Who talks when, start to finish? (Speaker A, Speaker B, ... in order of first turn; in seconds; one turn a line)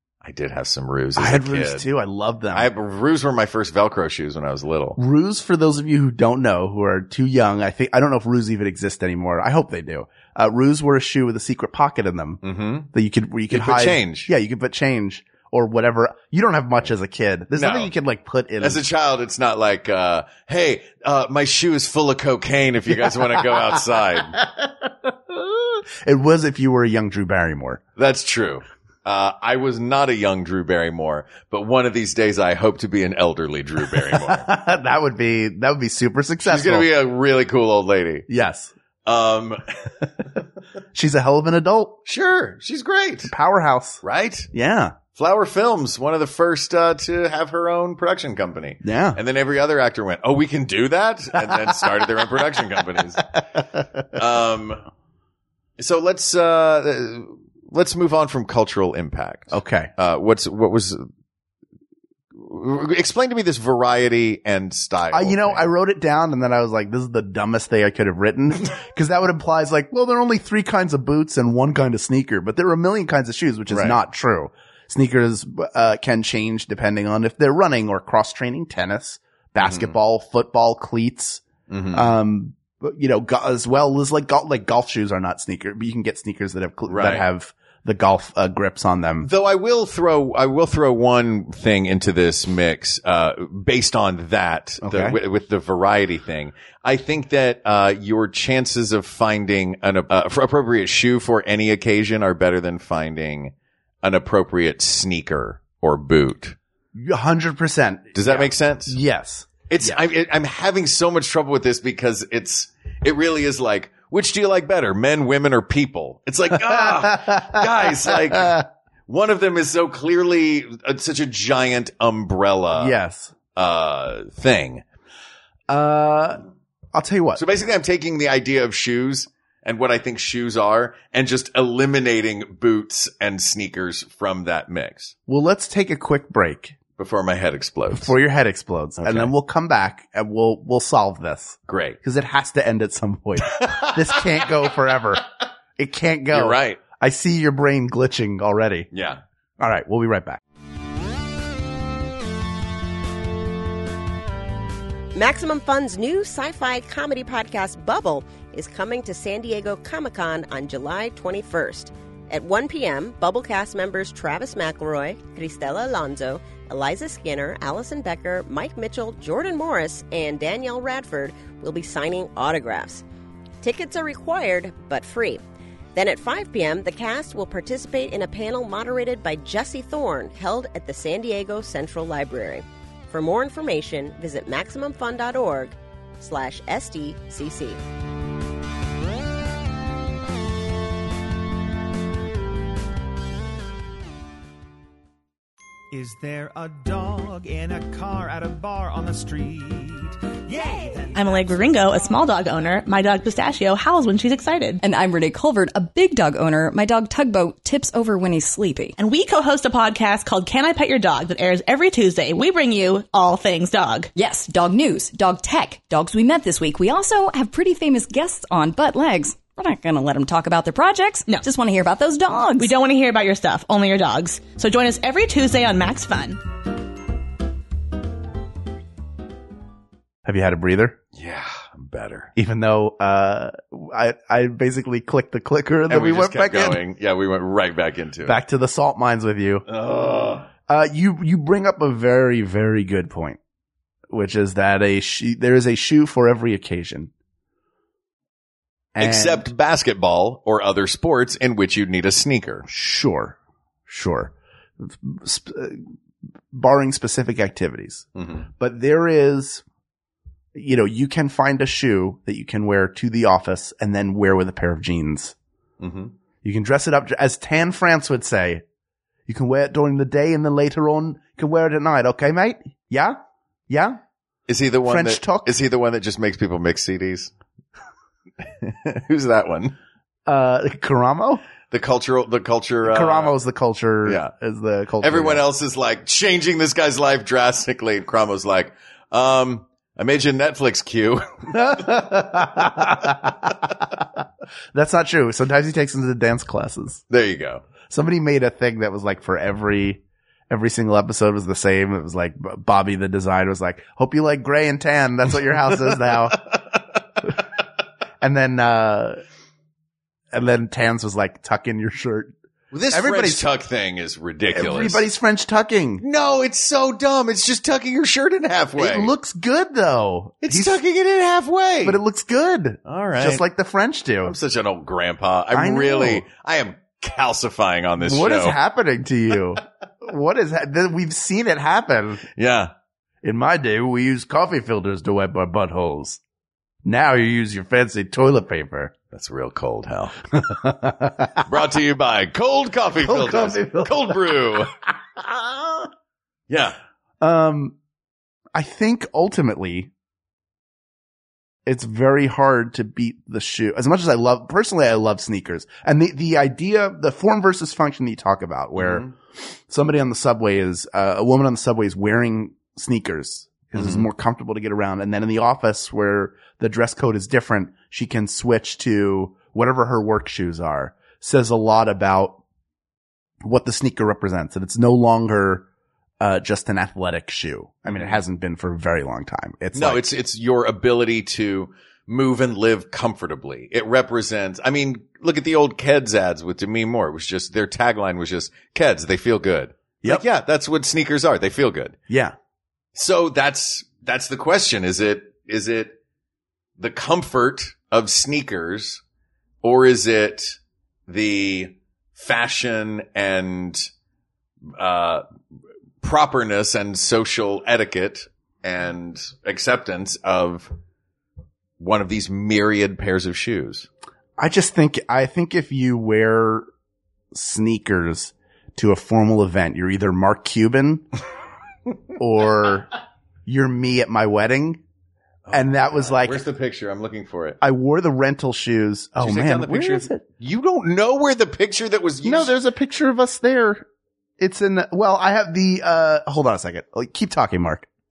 Speaker A: 0.2-1.9
Speaker B: 1.1-2.7
Speaker A: 2.5-5.0
Speaker B: 5.0-12.4
Speaker A: 12.4-12.9
Speaker B: 12.9-18.8
Speaker A: 13.5-14.3
Speaker A: 17.5-17.9
Speaker A: 18.6-24.4
Speaker B: 22.9-27.8
Speaker A: 28.0-34.5
Speaker B: 34.1-36.9
Speaker A: 36.4-38.2
Speaker B: 38.3-38.7
Speaker A: 39.0-39.6
Speaker B: 40.9-42.0
Speaker A: 42.0-43.3
Speaker B: 43.2-44.0
Speaker A: 44.0-44.5
Speaker B: 44.5-45.0
Speaker A: 45.1-53.3
Speaker B: 48.8-49.2
Speaker B: 51.5-52.4
Speaker A: 54.1-54.8
Speaker A: 55.8-61.0
Speaker B: 59.5-59.9
Speaker A: 62.4-65.7
Speaker B: 65.1-89.3
Speaker A: 73.7-74.0
Speaker A: 79.6-80.0
Speaker A: 81.7-82.1
Speaker A: 86.9-87.2
Speaker A: 89.2-106.6
Speaker B: 94.8-95.2
Speaker B: 106.9-110.0
Speaker A: 108.1-109.0
Speaker A: 109.7-122.9
Speaker B: 116.5-118.6
Speaker B: 122.7-123.3
Speaker A: 123.5-124.8
Speaker B: 125.7-126.4
Speaker B: 126.9-127.4
Speaker A: 127.3-135.1
Speaker B: 135.3-136.8
Speaker A: 137.0-138.1
Speaker B: 137.9-145.2
Speaker A: 139.0-139.3
Speaker A: 141.7-142.0
Speaker A: 143.5-144.4
Speaker B: 145.8-148.9
Speaker A: 146.3-146.8
Speaker A: 148.9-149.2
Speaker B: 149.6-150.4
Speaker C: 155.1-173.0
Speaker C: 173.6-175.4
Speaker C: 175.9-187.8
Speaker D: 195.9-201.6
Speaker E: 201.1-204.8
Speaker F: 204.8-208.9
Speaker E: 208.9-214.1
Speaker F: 214.1-222.7
Speaker E: 222.5-226.4
Speaker B: 230.2-231.0
Speaker A: 231.1-232.3
Speaker B: 232.3-236.8
Speaker A: 235.9-238.4
Speaker B: 238.2-239.7
Speaker A: 239.7-240.5
Speaker B: 240.7-243.4
Speaker B: 244.1-247.1
Speaker B: 248.9-249.5
Speaker A: 249.0-252.7
Speaker B: 252.7-253.3
Speaker B: 253.9-255.9
Speaker B: 256.5-259.6
Speaker A: 258.1-258.5
Speaker B: 260.5-265.3
Speaker A: 265.8-266.1
Speaker B: 266.4-268.6
Speaker B: 269.3-273.2
Speaker B: 273.7-274.0
Speaker A: 274.5-277.3
Speaker B: 274.8-275.5
Speaker A: 278.4-279.8
Speaker B: 280.2-281.4
Speaker A: 281.7-283.3
Speaker B: 282.8-285.4
Speaker A: 284.0-284.3
Speaker A: 285.0-291.9
Speaker B: 291.5-294.2
Speaker B: 294.7-297.0
Speaker A: 297.1-297.6
Speaker B: 297.9-306.4
Speaker B: 308.2-309.2
Speaker B: 310.3-312.3
Speaker A: 312.7-315.0
Speaker B: 312.9-313.5
Speaker B: 314.5-316.0
Speaker A: 316.0-319.1
Speaker B: 318.8-320.8
Speaker A: 320.4-322.0
Speaker B: 321.8-324.4
Speaker A: 322.9-323.4
Speaker A: 324.2-328.6
Speaker B: 325.5-326.2
Speaker B: 328.0-332.2
Speaker A: 332.4-332.7
Speaker B: 333.2-336.2
Speaker B: 336.8-338.9
Speaker A: 339.1-340.2
Speaker B: 340.4-341.4
Speaker A: 341.4-344.7
Speaker B: 343.0-345.9
Speaker A: 346.5-346.8
Speaker B: 347.2-347.8
Speaker B: 348.5-349.9
Speaker B: 351.6-359.1
Speaker A: 358.8-359.1
Speaker B: 359.7-372.4
Speaker A: 363.8-364.1
Speaker B: 373.4-375.6
Speaker B: 376.2-380.0
Speaker A: 377.9-378.2
Speaker A: 379.7-392.0
Speaker B: 392.1-392.3
Speaker A: 392.9-396.0
Speaker A: 396.8-399.0
Speaker A: 399.6-403.9
Speaker A: 404.8-405.2
Speaker A: 406.0-410.7
Speaker A: 411.8-413.9
Speaker B: 414.4-416.7
Speaker B: 417.3-421.0
Speaker B: 422.2-422.9
Speaker B: 423.4-424.8
Speaker A: 425.4-427.6
Speaker B: 425.5-426.4
Speaker B: 427.6-430.2
Speaker A: 429.2-432.5
Speaker B: 432.2-433.9
Speaker B: 434.4-437.9